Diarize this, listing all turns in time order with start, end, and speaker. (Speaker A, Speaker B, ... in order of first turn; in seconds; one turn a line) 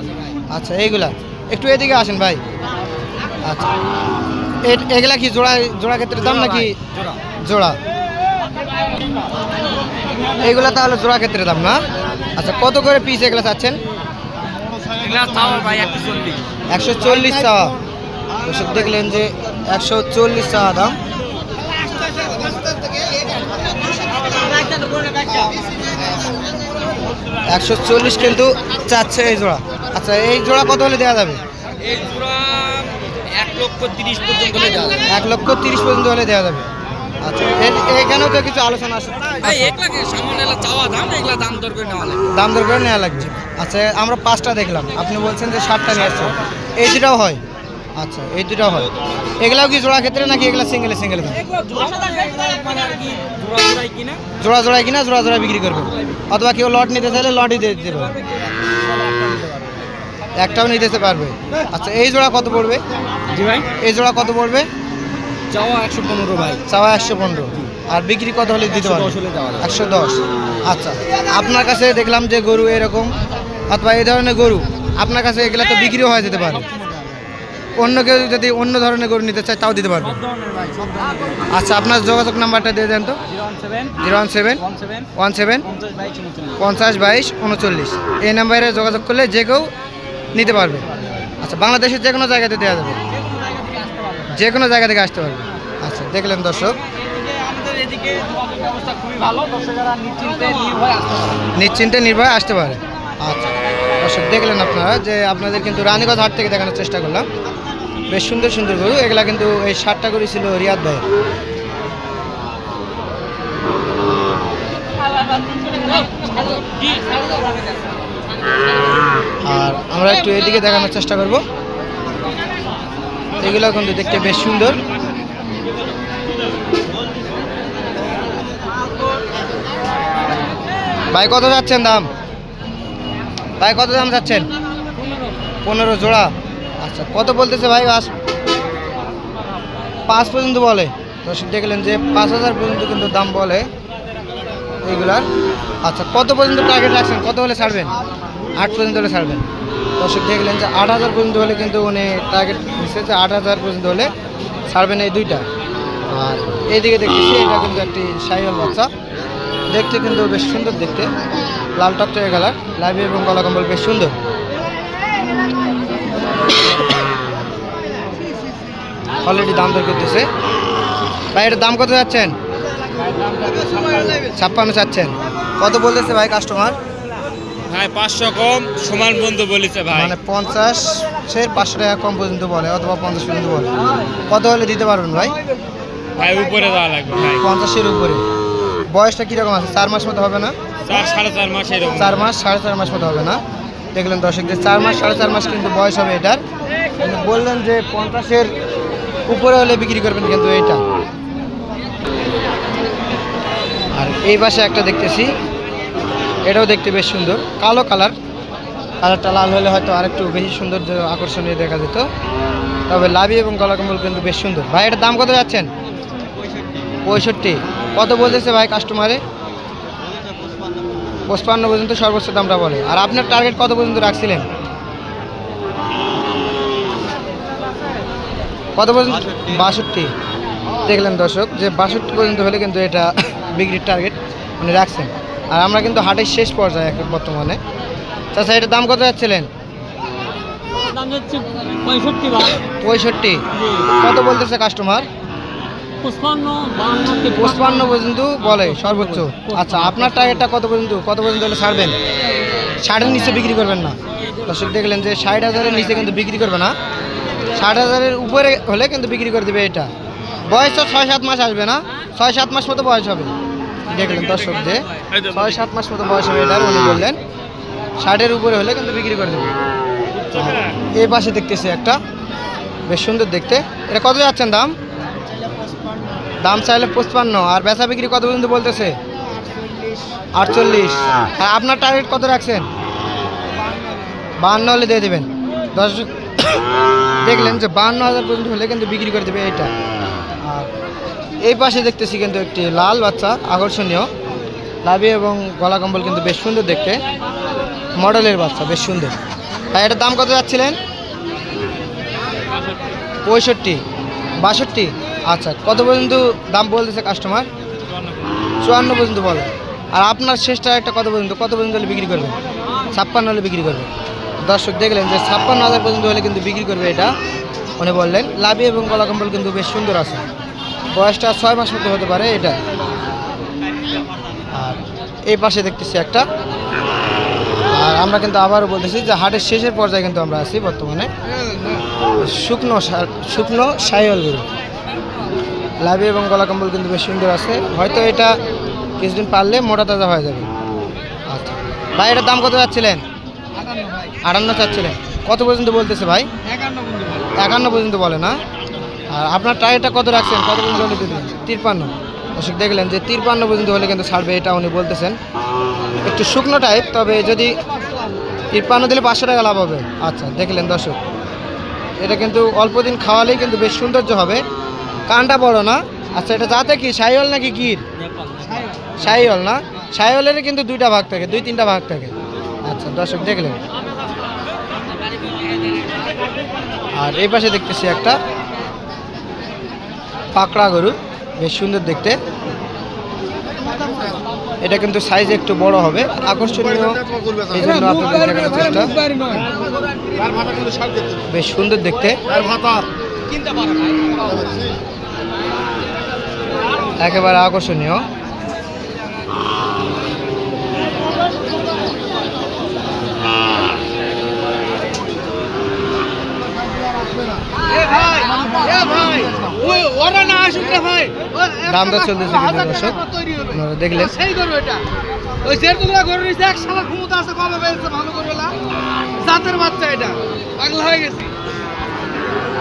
Speaker A: 0.5-2.4
Speaker A: 3.4-3.7
Speaker A: 4.6-6.8
Speaker B: 6.3-7.2
Speaker A: 7.4-7.8
Speaker A: 10.4-11.8
Speaker A: 12.4-13.8
Speaker B: 14.9-16.4
Speaker A: 16.7-17.8
Speaker A: 18.4-21.0
Speaker B: 24.3-25.4
Speaker A: 27.5-31.4
Speaker B: 31.8-35.1
Speaker A: 35.0-36.7
Speaker A: 37.2-39.8
Speaker B: 39.5-42.2
Speaker A: 42.3-47.4
Speaker A: 48.0-51.5
Speaker B: 51.3-54.2
Speaker A: 54.4-58.1
Speaker B: 57.8-59.5
Speaker A: 60.4-62.8
Speaker B: 63.3-63.7
Speaker A: 63.8-64.7
Speaker B: 65.5-66.6
Speaker A: 66.7-73.2
Speaker B: 68.7-69.7
Speaker A: 73.7-76.7
Speaker B: 76.0-77.2
Speaker A: 77.8-80.2
Speaker B: 80.0-81.5
Speaker A: 81.5-83.2
Speaker B: 83.3-84.0
Speaker A: 84.0-84.6
Speaker B: 84.6-85.1
Speaker A: 85.2-85.7
Speaker B: 85.6-86.6
Speaker A: 86.6-89.7
Speaker A: 90.3-90.8
Speaker A: 91.4-93.0
Speaker B: 93.1-94.5
Speaker A: 94.3-96.8
Speaker B: 96.7-101.5
Speaker A: 101.5-107.3
Speaker A: 108.1-111.0
Speaker A: 119.4-121.4
Speaker A: 123.4-124.8
Speaker A: 131.1-132.1
Speaker A: 133.6-134.5
Speaker A: 135.7-138.1
Speaker A: 140.1-143.7
Speaker A: 144.9-145.3
Speaker A: 145.8-148.0
Speaker A: 148.5-149.4
Speaker A: 150.0-154.1
Speaker A: 154.7-155.4
Speaker A: 156.1-158.9
Speaker A: 159.7-161.1
Speaker A: 161.8-164.2
Speaker A: 169.2-170.3
Speaker A: 171.3-172.3
Speaker B: 172.9-174.3
Speaker A: 174.3-176.8
Speaker C: 177.7-180.2
Speaker A: 179.9-183.7
Speaker A: 184.3-185.3
Speaker C: 186.2-187.5
Speaker A: 187.4-188.2
Speaker A: 188.9-190.6
Speaker C: 190.8-192.2
Speaker A: 192.0-193.4
Speaker A: 193.9-196.4
Speaker A: 197.0-198.5
Speaker A: 199.3-200.8
Speaker A: 203.9-205.3
Speaker A: 206.5-208.2
Speaker A: 209.0-212.1
Speaker A: 212.9-215.7
Speaker A: 217.1-219.2
Speaker A: 221.3-224.5
Speaker A: 228.8-230.1
Speaker A: 230.8-237.6
Speaker A: 238.3-239.5
Speaker D: 240.8-242.5
Speaker B: 240.9-242.6
Speaker A: 242.8-245.1
Speaker D: 246.0-247.3
Speaker B: 246.1-247.2
Speaker A: 247.3-252.0
Speaker A: 252.8-256.7
Speaker A: 257.5-259.9
Speaker A: 260.5-263.3
Speaker A: 263.9-267.2
Speaker B: 264.7-265.2
Speaker A: 268.0-269.5
Speaker A: 270.3-272.0
Speaker A: 272.9-274.7
Speaker A: 276.4-279.0
Speaker A: 280.3-282.7
Speaker A: 284.4-286.6
Speaker A: 287.2-289.7
Speaker A: 291.4-294.1
Speaker A: 294.8-297.0
Speaker A: 298.0-299.1
Speaker A: 299.7-300.8
Speaker A: 303.2-303.8
Speaker A: 304.4-307.5
Speaker A: 308.6-312.4
Speaker A: 312.9-313.9
Speaker A: 314.4-317.1
Speaker A: 317.8-320.2
Speaker A: 320.9-322.6
Speaker A: 324.5-326.3
Speaker A: 327.7-331.1
Speaker A: 332.2-334.5
Speaker A: 335.8-338.4
Speaker A: 339.0-340.5
Speaker A: 341.3-343.0
Speaker A: 344.2-346.3
Speaker A: 347.4-348.4
Speaker A: 349.1-355.2
Speaker A: 356.0-357.5
Speaker A: 358.5-361.0
Speaker A: 362.0-364.4
Speaker A: 365.1-367.8
Speaker B: 368.0-369.1
Speaker A: 369.0-372.1
Speaker A: 372.6-373.6
Speaker A: 377.0-378.2
Speaker A: 380.4-382.2
Speaker A: 384.6-389.0
Speaker A: 391.3-392.2
Speaker A: 397.0-398.1
Speaker D: 408.6-411.4
Speaker B: 410.3-411.1
Speaker A: 411.5-414.3
Speaker D: 414.3-414.8
Speaker D: 415.5-418.5
Speaker B: 415.6-416.7
Speaker D: 419.4-420.1
Speaker B: 419.4-420.1
Speaker B: 420.7-421.2
Speaker D: 420.7-421.2